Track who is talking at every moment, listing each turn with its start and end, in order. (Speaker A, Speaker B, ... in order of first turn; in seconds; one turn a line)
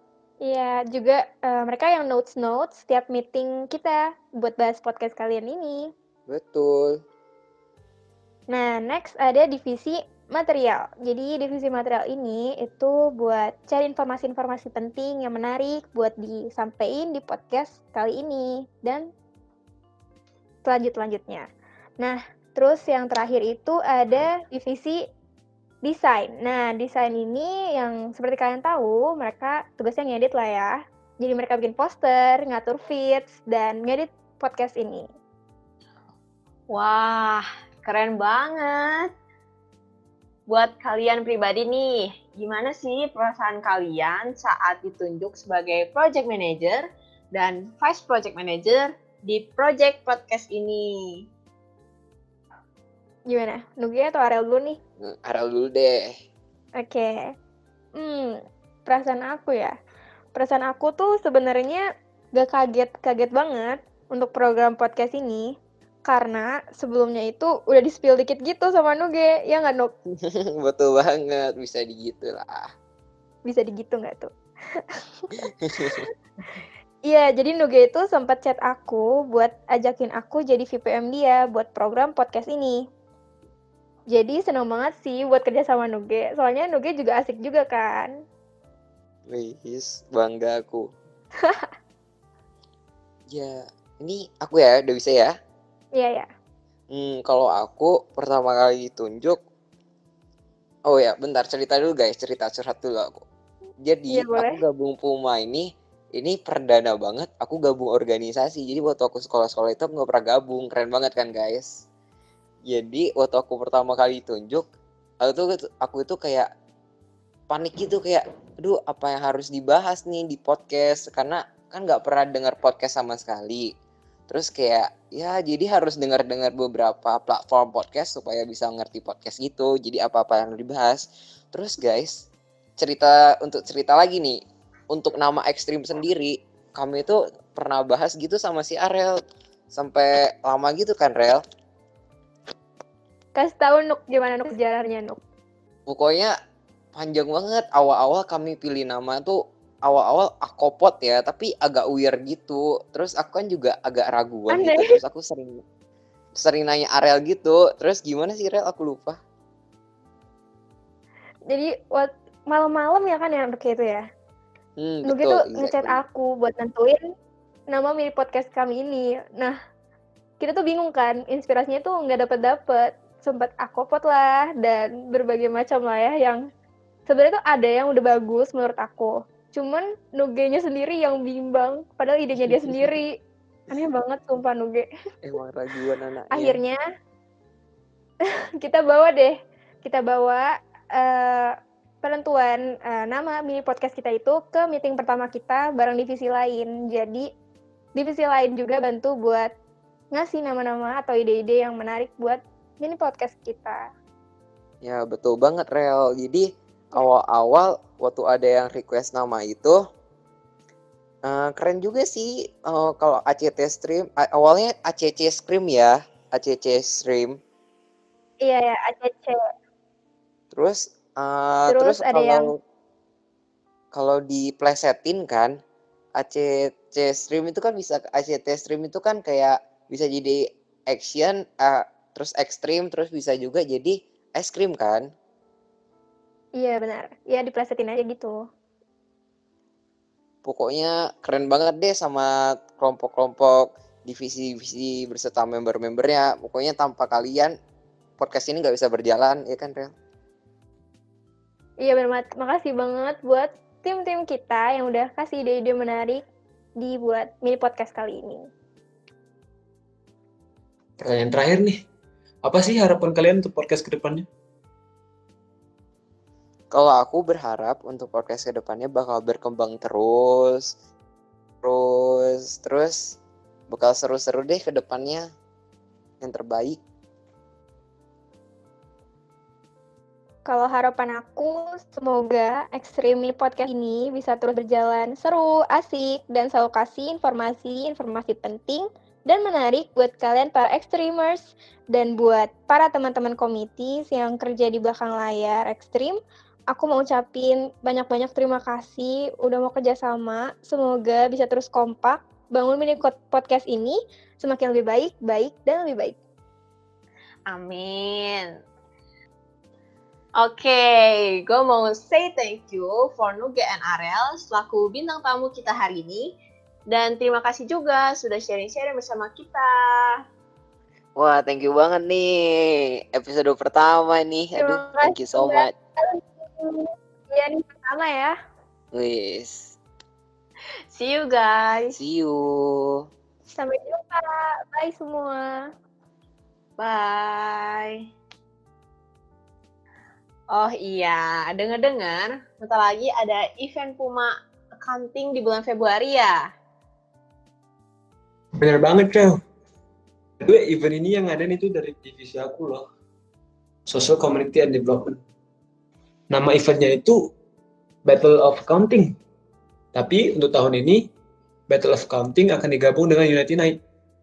Speaker A: 0.4-5.9
Speaker B: 6.3-7.0
Speaker A: 8.5-19.1
Speaker A: 20.6-21.5
Speaker A: 22.0-25.0
Speaker A: 25.8-35.1
Speaker C: 36.7-39.1
Speaker C: 40.5-51.3
Speaker A: 53.3-54.8
Speaker B: 55.0-56.1
Speaker A: 56.8-57.3
Speaker A: 58.0-59.7
Speaker A: 60.4-61.8
Speaker A: 62.4-65.5
Speaker A: 66.1-69.9
Speaker B: 70.3-72.7
Speaker A: 73.5-76.1
Speaker B: 75.7-76.0
Speaker A: 77.1-82.8
Speaker A: 84.1-88.1
Speaker B: 89.3-90.9
Speaker A: 91.4-91.7
Speaker B: 93.3-95.3
Speaker A: 96.0-96.3
Speaker B: 96.9-99.4
Speaker B: 100.9-103.2
Speaker B: 103.8-111.7
Speaker A: 104.1-104.6
Speaker B: 112.7-114.7
Speaker B: 115.2-116.5
Speaker B: 117.5-123.7
Speaker B: 124.3-132.2
Speaker B: 132.8-134.4
Speaker B: 134.9-139.2
Speaker B: 139.7-141.4
Speaker A: 143.3-145.2
Speaker B: 145.9-146.3
Speaker B: 146.9-155.6
Speaker A: 154.5-155.0
Speaker B: 156.4-159.2
Speaker A: 161.5-164.0
Speaker B: 164.8-166.0
Speaker A: 165.1-167.0
Speaker A: 167.7-169.6
Speaker A: 170.4-176.4
Speaker A: 177.1-183.1
Speaker B: 182.4-183.0
Speaker A: 183.7-184.9
Speaker B: 185.2-186.6
Speaker A: 186.3-186.8
Speaker A: 188.6-197.3
Speaker A: 197.9-199.5
Speaker A: 200.1-203.8
Speaker B: 204.8-209.8
Speaker B: 211.3-217.3
Speaker A: 218.4-219.4
Speaker B: 220.5-222.5
Speaker A: 221.7-222.5
Speaker B: 223.9-225.5
Speaker B: 226.2-235.0
Speaker A: 236.6-238.4
Speaker B: 240.4-247.5
Speaker B: 248.2-249.9
Speaker A: 251.8-256.2
Speaker A: 256.8-258.5
Speaker D: 261.0-261.8
Speaker D: 262.4-264.3
Speaker B: 266.7-270.7
Speaker B: 271.6-273.2
Speaker B: 273.7-275.2
Speaker B: 276.2-276.8
Speaker A: 280.5-296.2
Speaker A: 296.7-306.2
Speaker C: 307.5-308.5
Speaker C: 310.4-316.3
Speaker C: 316.9-320.1
Speaker B: 321.2-325.7
Speaker A: 324.6-328.4
Speaker B: 328.9-329.8
Speaker C: 330.9-332.0
Speaker B: 331.9-332.9
Speaker A: 333.6-335.6
Speaker C: 336.8-338.0
Speaker C: 340.5-344.3
Speaker C: 344.8-346.4
Speaker D: 348.6-349.4
Speaker D: 350.4-352.8
Speaker D: 353.9-355.2
Speaker D: 356.3-357.2
Speaker D: 358.1-359.2
Speaker D: 359.9-361.0
Speaker D: 361.7-363.8